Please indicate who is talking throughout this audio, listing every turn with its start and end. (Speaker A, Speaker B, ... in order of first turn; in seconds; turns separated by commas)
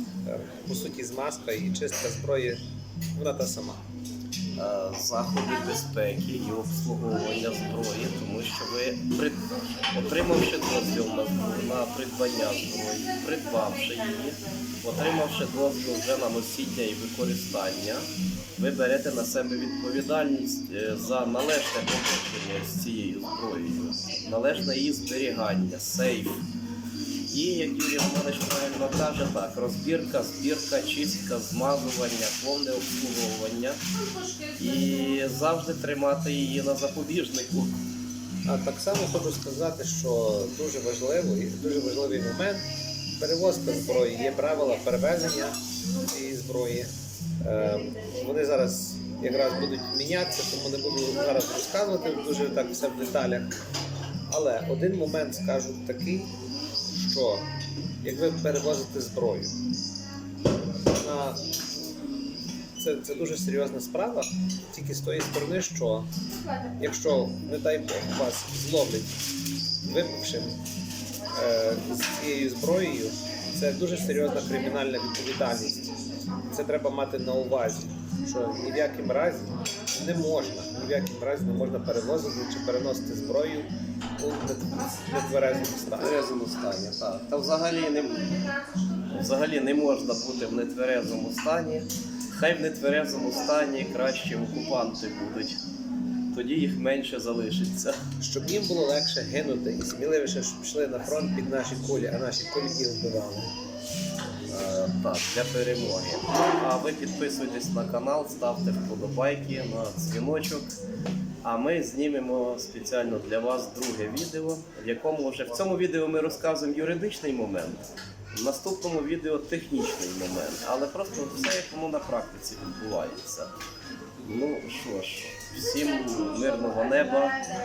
Speaker A: 0.2-2.6, Speaker A: 3.1-3.8, Speaker B: 4.6-9.4, Speaker B: 9.9-26.4, Speaker B: 27.3-33.8, Speaker B: 34.5-37.7, Speaker A: 38.5-42.6, Speaker A: 43.2-46.9, Speaker A: 47.4-53.5, Speaker A: 54.3-56.3, Speaker A: 56.9-57.5, Speaker A: 58.0-59.5, Speaker A: 61.0-61.4, Speaker A: 62.8-66.1, Speaker A: 66.8-69.2, Speaker A: 69.9-70.5, Speaker A: 71.3-75.9, Speaker A: 76.5-86.2, Speaker B: 86.0-88.5, Speaker B: 89.1-95.6, Speaker B: 96.3-98.0, Speaker A: 98.2-103.5, Speaker B: 104.5-110.7, Speaker B: 111.4-123.5, Speaker B: 124.2-127.4